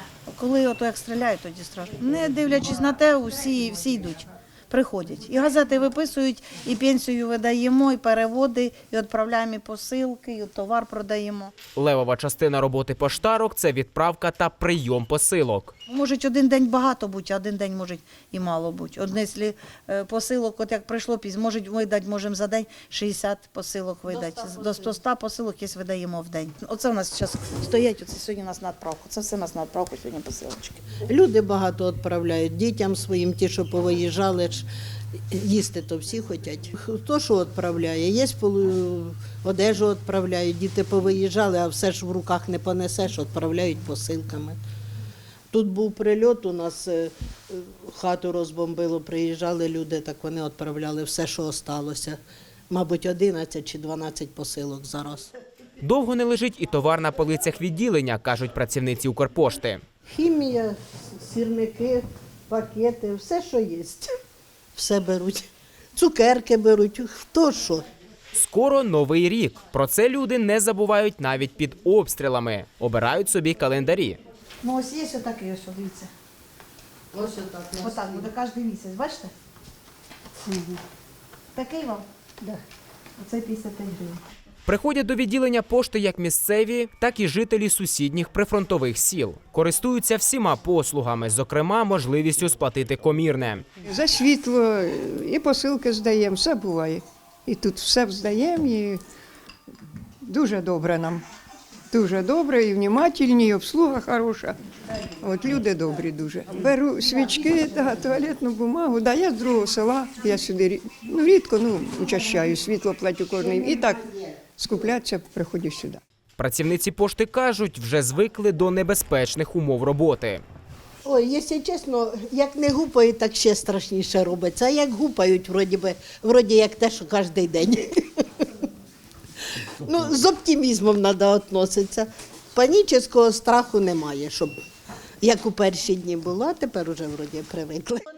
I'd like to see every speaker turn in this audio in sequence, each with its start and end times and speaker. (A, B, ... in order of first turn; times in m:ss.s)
0:00.3-0:11.5 A
0:11.8-0:15.7 B
0:15.9-0:30.9 A
0:24.3-0:24.8 C
0:31.0-0:34.7 C
0:35.3-0:44.6 C
0:45.5-0:52.2 C
0:52.7-0:55.3 C
0:55.8-0:59.8 B
1:00.1-1:04.1 C
1:04.8-1:07.8 C
1:08.3-1:14.2 B
1:14.6-1:16.1 A
1:17.1-1:18.3 C
1:17.8-1:19.3 A
1:20.5-1:20.8 C
1:21.5-1:22.0 A
1:23.2-1:24.2 A
1:24.6-1:33.6 B
1:33.8-1:39.0 D
1:40.2-1:41.2 D
1:41.9-1:44.6 D
1:45.2-1:56.0 D
1:56.4-2:00.4 B
2:01.0-2:08.5 C
2:09.8-2:14.5 C
2:15.2-2:18.0 C